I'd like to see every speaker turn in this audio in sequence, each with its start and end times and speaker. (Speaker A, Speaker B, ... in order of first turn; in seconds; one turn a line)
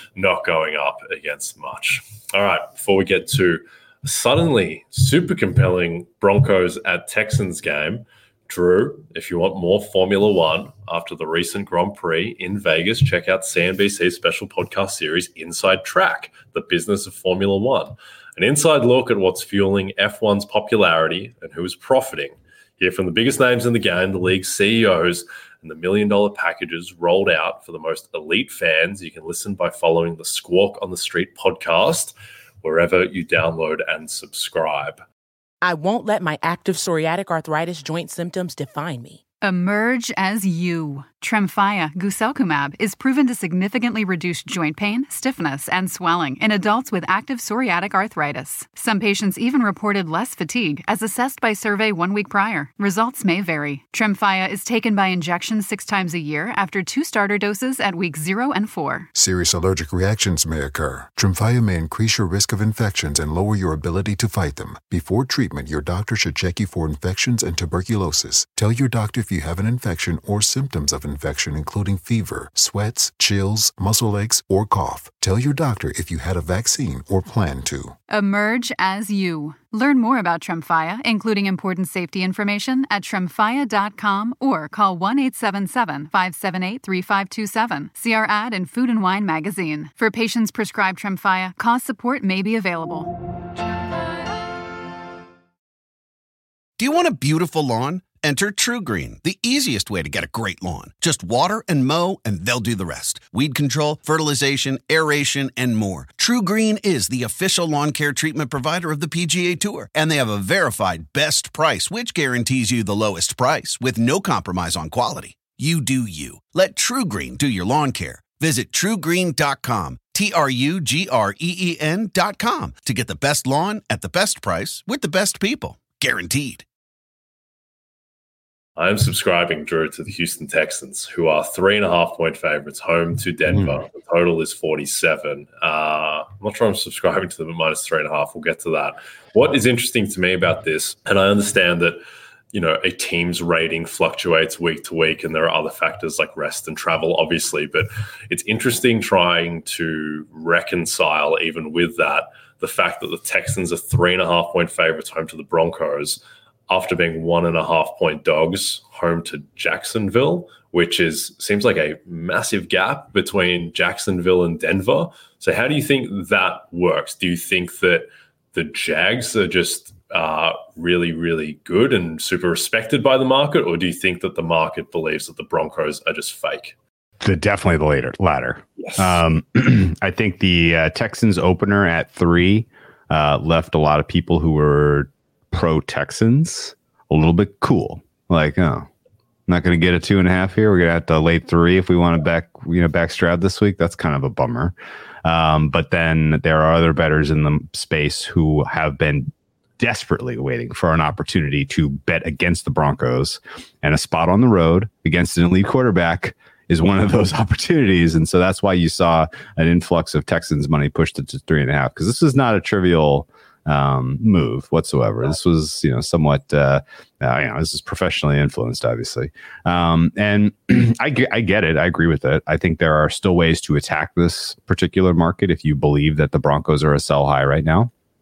Speaker A: 0.1-35.0
Speaker B: 35.6-39.2
Speaker C: 39.4-59.1
Speaker D: 59.1-78.0
Speaker C: 78.1-93.2
Speaker E: 96.8-126.6
Speaker A: 128.8-142.0
Speaker A: 142.5-176.8
Speaker F: 177.2-188.9
Speaker A: 178.8-179.2
Speaker F: 189.5-227.9